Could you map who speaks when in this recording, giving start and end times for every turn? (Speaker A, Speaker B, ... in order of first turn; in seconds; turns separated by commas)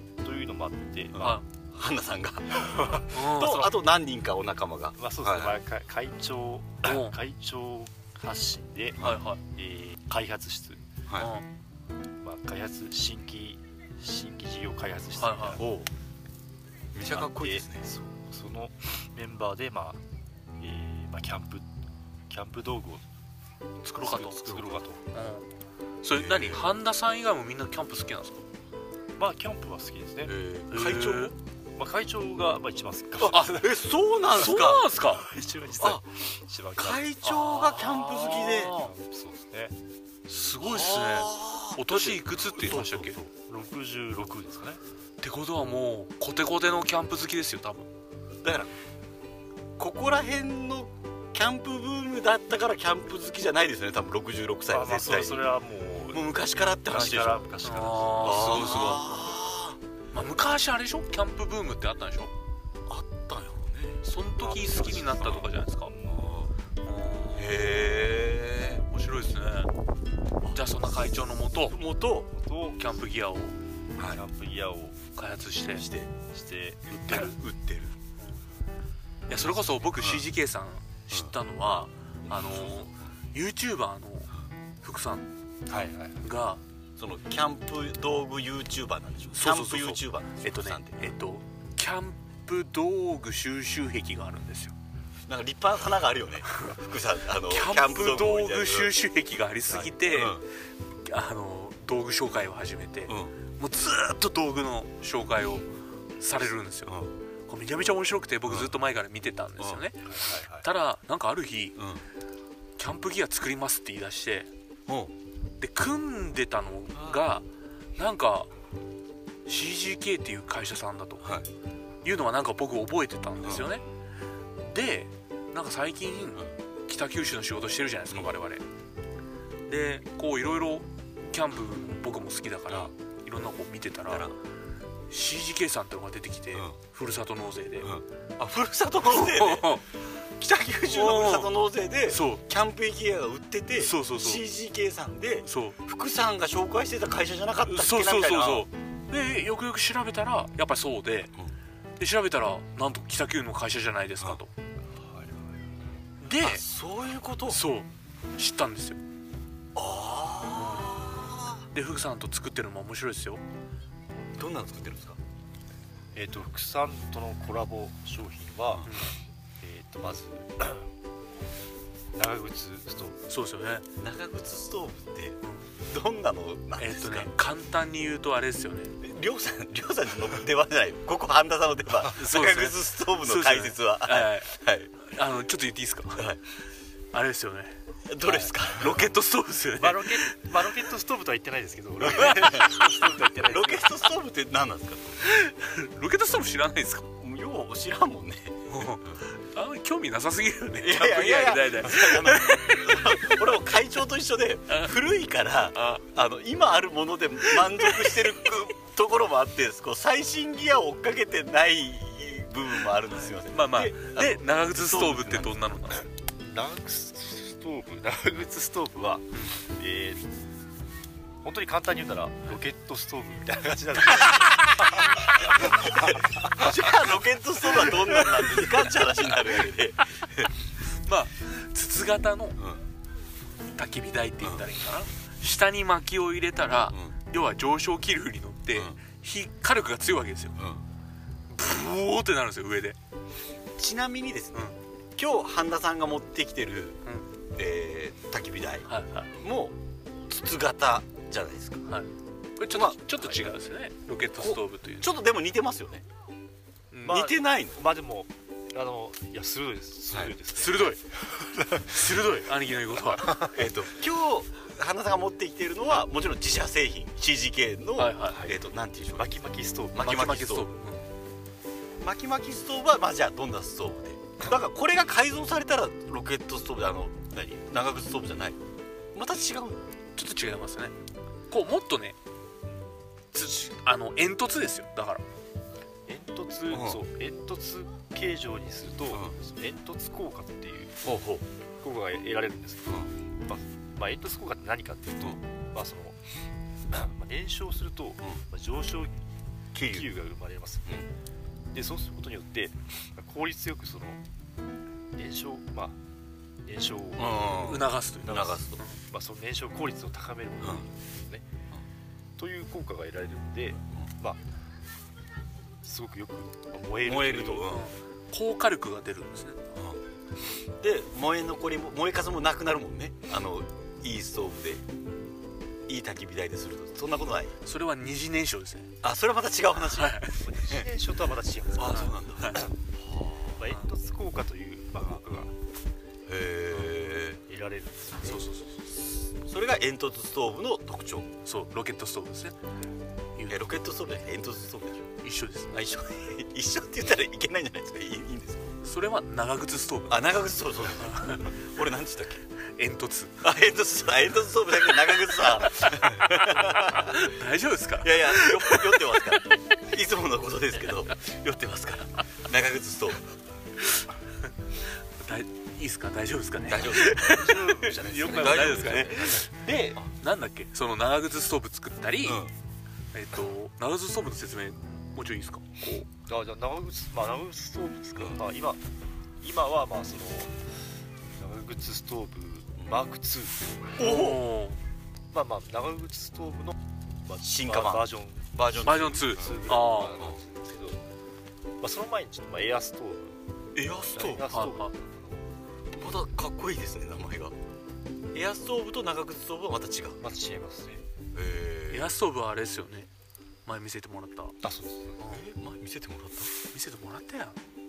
Speaker A: 0.2-1.4, Speaker B: 1.1-5.6, Speaker A: 2.6-3.0, Speaker C: 3.1-3.7, Speaker A: 5.0-10.8, Speaker C: 6.8-7.1, Speaker B: 9.0-9.2, Speaker C: 9.0-9.4, Speaker C: 11.1-11.4, Speaker A: 12.2-15.7, Speaker C: 15.2-15.6, Speaker B: 15.6-15.9, Speaker B: 16.9-17.9, Speaker A: 17.1-20.0, Speaker A: 20.6-21.6, Speaker A: 22.3-23.0, Speaker C: 23.8-25.4, Speaker A: 24.0-25.0, Speaker C: 26.0-28.4, Speaker B: 26.1-26.7, Speaker A: 29.2-30.3, Speaker B: 30.2-31.3, Speaker C: 30.7-31.3, Speaker A: 31.8-33.7, Speaker B: 33.2-34.8, Speaker C: 33.3-33.6, Speaker C: 34.4-35.2, Speaker A: 35.1-37.1, Speaker B: 36.8-38.7, Speaker C: 37.2-38.9, Speaker A: 38.7-39.7, Speaker C: 40.3-43.2, Speaker B: 40.6-43.3, Speaker A: 43.5-44.8, Speaker C: 45.2-47.9, Speaker B: 48.4-48.7, Speaker B: 49.8-55.4, Speaker A: 54.7-56.3, Speaker B: 56.1-57.4, Speaker A: 56.8-58.6, Speaker C: 57.6-59.0, Speaker B: 58.2-59.8, Speaker C: 60.1-62.3, Speaker B: 62.9-65.5, Speaker C: 64.0-65.9, Speaker B: 66.0-66.5, Speaker C: 66.8-67.8, Speaker B: 67.3-68.8, Speaker C: 68.9-69.7, Speaker B: 70.4-72.3, Speaker C: 70.5-71.8, Speaker A: 72.3-73.0, Speaker C: 72.8-73.5, Speaker A: 74.0-75.0, Speaker C: 75.2-75.8, Speaker B: 75.7-76.1, Speaker A: 76.2-77.3, Speaker B: 76.9-78.0, Speaker C: 79.3-84.3, Speaker B: 79.4-80.2, Speaker C: 84.8-85.2, Speaker A: 85.7-86.2, Speaker C: 86.2-86.6, Speaker B: 87.0-91.1, Speaker C: 89.3-94.7, Speaker B: 95.3-98.9, Speaker C: 97.5-100.4, Speaker B: 99.7-100.4, Speaker C: 101.0-105.7, Speaker B: 103.1-103.3, Speaker C: 106.2-111.8, Speaker B: 106.8-107.1, Speaker B: 108.4-108.7, Speaker B: 109.6-110.7, Speaker B: 111.8-112.0, Speaker C: 112.8-114.5, Speaker B: 114.9-115.1, Speaker C: 115.6-117.4, Speaker B: 116.9-117.2, Speaker C: 118.0-118.5, Speaker C: 119.5-121.3, Speaker B: 121.2-121.5, Speaker C: 122.0-123.8, Speaker B: 123.4-123.7, Speaker C: 124.6-128.6, Speaker C: 129.7-134.3, Speaker B: 134.1-134.3, Speaker C: 135.1-137.9, Speaker B: 137.8-148.7, Speaker C: 139.1-139.8, Speaker C: 140.9-141.5, Speaker C: 142.1-142.4, Speaker C: 143.8-144.4, Speaker C: 145.4-145.8, Speaker C: 147.6-151.3, Speaker C: 152.0-154.5, Speaker A: 155.1-155.6, Speaker C: 156.2-156.6, Speaker B: 156.4-157.6, Speaker C: 157.5-159.0, Speaker B: 159.7-161.7, Speaker C: 160.5-161.0, Speaker C: 161.7-163.4, Speaker B: 164.4-165.2, Speaker A: 166.1-168.9, Speaker A: 169.6-170.9, Speaker A: 172.1-173.2, Speaker C: 173.3-173.8, Speaker B: 174.0-177.3, Speaker C: 176.8-178.9, Speaker B: 179.0-184.9, Speaker C: 182.1-186.3, Speaker C: 187.1-187.8, Speaker B: 188.1-189.1, Speaker C: 188.8-190.3, Speaker A: 189.8-194.0, Speaker B: 192.1-192.9, Speaker B: 193.4-195.3, Speaker C: 195.2-197.1, Speaker B: 197.2-199.2, Speaker C: 198.7-203.4, Speaker B: 200.8-215.5, Speaker C: 204.7-204.9, Speaker C: 205.7-206.0, Speaker C: 207.5-208.2, Speaker C: 213.5-216.1, Speaker A: 216.4-220.3, Speaker A: 221.4-226.6, Speaker B: 225.6-230.5, Speaker C: 231.0-232.6, Speaker B: 232.6-232.8, Speaker C: 233.8-240.6, Speaker B: 238.7-239.0, Speaker B: 240.6-240.8, Speaker C: 241.5-243.0, Speaker B: 243.8-244.6, Speaker B: 245.2-247.0, Speaker B: 247.5-248.9, Speaker C: 248.9-249.3, Speaker B: 249.4-249.8, Speaker B: 250.3-251.8, Speaker C: 251.9-255.1, Speaker B: 252.7-253.4, Speaker B: 254.4-256.0, Speaker C: 256.9-257.2, Speaker A: 257.0-262.1, Speaker B: 257.0-257.9, Speaker C: 260.5-261.0, Speaker C: 261.9-263.5, Speaker B: 263.4-269.4, Speaker C: 268.0-268.4, Speaker A: 268.3-268.6, Speaker A: 269.1-270.3, Speaker B: 269.9-270.7, Speaker C: 270.0-271.0, Speaker B: 272.0-278.6, Speaker B: 279.1-279.8, Speaker C: 280.1-280.9, Speaker C: 281.5-282.1, Speaker C: 283.3-285.2, Speaker A: 286.1-290.9, Speaker B: 286.7-287.0, Speaker B: 291.0-291.4, Speaker A: 291.8-296.2, Speaker A: 296.9-299.1, Speaker B: 299.7-300.1, Speaker A: 299.8-300.9, Speaker A: 301.7-304.2, Speaker A: 305.1-306.0, Speaker A: 306.6-311.4, Speaker B: 307.2-308.8, Speaker C: 307.5-309.0, Speaker A: 312.4-314.4, Speaker A: 315.8-317.8, Speaker B: 317.0-317.9, Speaker C: 317.6-319.6, Speaker B: 319.7-320.0, Speaker B: 320.8-324.8, Speaker B: 325.9-327.6, Speaker C: 327.6-328.9, Speaker B: 329.0-330.2, Speaker C: 329.9-330.4, Speaker A: 330.4-332.7, Speaker B: 331.7-333.6, Speaker C: 331.8-332.6, Speaker A: 333.5-335.5, Speaker B: 336.2-337.4, Speaker A: 337.4-338.4, Speaker C: 338.2-338.8, Speaker B: 339.4-341.3, Speaker C: 341.4-342.6, Speaker C: 343.4-343.6, Speaker B: 343.5-345.1, Speaker C: 345.2-345.7, Speaker B: 345.7-348.7, Speaker C: 348.8-350.2, Speaker B: 350.1-352.4, Speaker C: 351.0-351.5, Speaker C: 352.8-353.3, Speaker B: 353.4-357.2, Speaker C: 355.8-356.0, Speaker C: 356.6-359.3, Speaker B: 358.0-363.2, Speaker C: 365.2-369.5, Speaker B: 366.7-369.4, Speaker A: 367.0-370.0, Speaker C: 370.1-372.4, Speaker B: 372.2-372.5, Speaker C: 373.1-376.1, Speaker A: 376.3-378.8, Speaker A: 379.4-380.5, Speaker A: 381.4-384.0, Speaker B: 384.0-384.5, Speaker C: 384.0-384.8, Speaker A: 385.3-391.0, Speaker B: 387.4-390.4, Speaker C: 388.8-390.2, Speaker A: 391.8-393.4, Speaker B: 393.7-394.4, Speaker A: 394.1-395.5, Speaker C: 394.5-394.9, Speaker B: 395.9-397.5, Speaker B: 398.3-400.2, Speaker A: 400.2-401.0, Speaker B: 401.3-402.2, Speaker C: 401.9-403.1, Speaker C: 403.6-404.6, Speaker A: 404.6-405.2, Speaker C: 405.2-405.4, Speaker B: 405.3-406.5, Speaker C: 406.7-407.6